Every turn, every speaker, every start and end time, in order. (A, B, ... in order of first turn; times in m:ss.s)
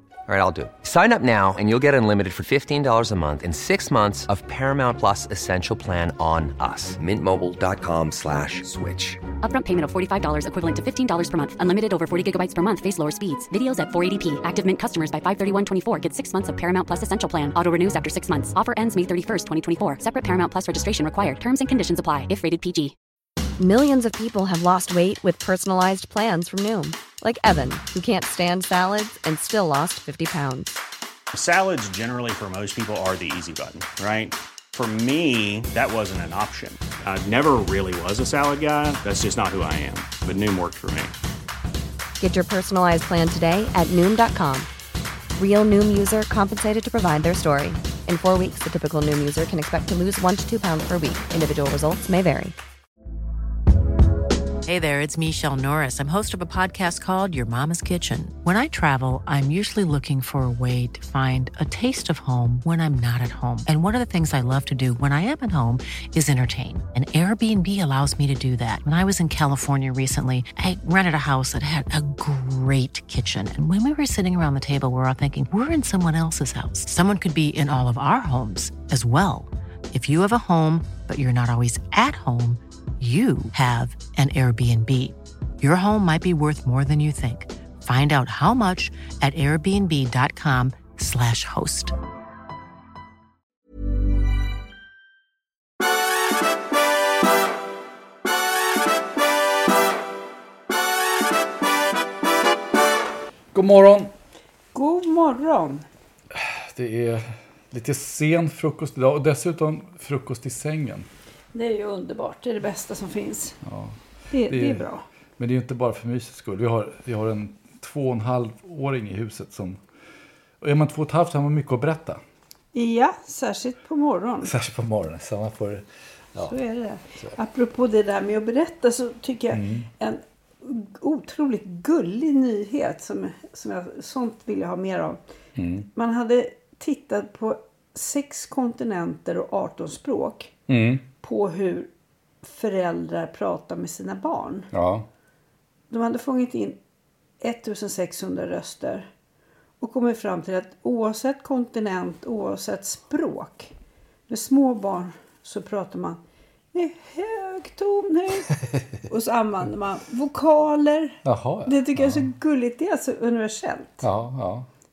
0:00.3-0:09.2 A
0:09.4-0:23.0 B
0:23.6-0:30.8 C
0:31.3-0:41.1 D
0:42.2-0:44.7 C
0:45.4-0:52.5 C
0:54.6-1:31.9 E
1:43.5-1:44.1 F
1:44.7-1:45.9 G
1:46.3-1:51.1 F
1:51.5-1:53.6 G
1:53.6-1:54.8 F
1:54.3-1:55.0 G
1:55.4-1:59.8 F
2:00.6-2:02.2 F
2:02.7-2:04.5 G
2:04.4-2:06.5 F
2:06.4-2:15.2 G
2:09.5-2:09.9 F
2:15.6-2:15.8 F
2:15.9-2:20.5 G
2:20.7-2:21.0 F
2:21.2-2:21.9 G
2:22.4-2:24.7 G
2:24.7-2:25.0 F
2:25.9-2:26.8 G
2:27.4-2:29.1 G
2:29.8-2:33.7 G
2:34.3-2:36.2 G
2:36.7-2:38.5 G
2:39.0-2:44.0 G
2:41.2-2:42.3 F
2:44.0-2:44.7 F